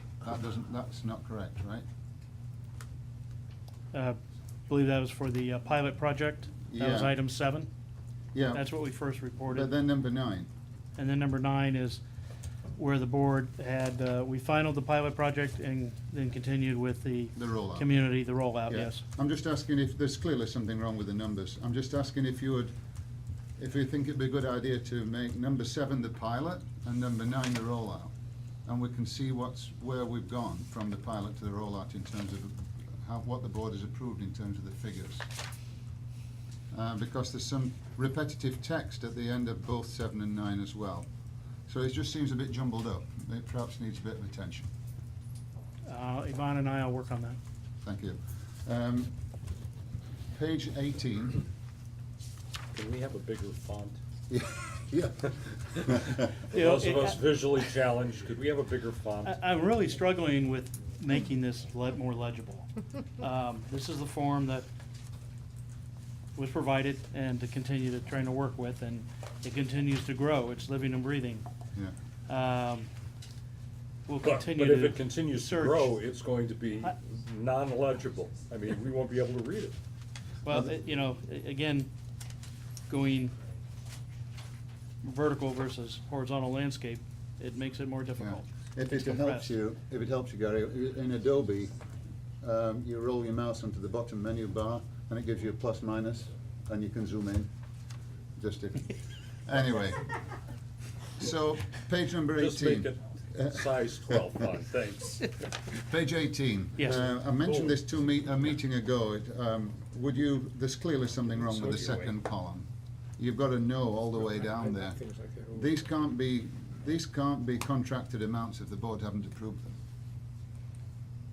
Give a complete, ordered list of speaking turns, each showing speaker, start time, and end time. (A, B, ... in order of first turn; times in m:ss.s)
0:00.2-0:01.8 A
0:03.9-0:04.2 B
0:04.7-0:07.7 B
0:06.7-0:07.2 A
0:08.3-0:08.6 A
0:08.5-0:09.7 B
0:09.5-0:10.5 A
0:11.0-0:12.0 B
0:12.8-0:19.0 B
0:17.4-0:18.0 A
0:18.7-0:22.7 A
0:23.6-0:28.1 A
0:28.6-0:35.3 A
0:36.7-0:41.1 A
0:41.7-0:44.7 A
0:45.8-0:47.4 B
0:47.8-0:49.1 A
0:50.3-0:51.4 A
0:52.7-0:54.0 C
0:54.3-0:56.3 A
0:56.5-0:59.4 C
0:56.5-0:57.2 B
0:59.2-1:04.7 B
1:06.4-1:11.5 B
1:12.3-1:12.9 B
1:14.1-1:15.9 B
1:14.2-1:19.8 C
1:20.4-1:21.9 B
1:22.9-1:23.3 B
1:25.0-1:29.5 B
1:28.2-1:31.8 A
1:32.4-1:37.5 A
1:38.4-1:40.1 A
1:41.2-1:43.5 A
1:42.4-1:45.3 C
1:45.7-1:59.8 A
1:47.4-1:47.8 C
1:51.4-1:52.1 C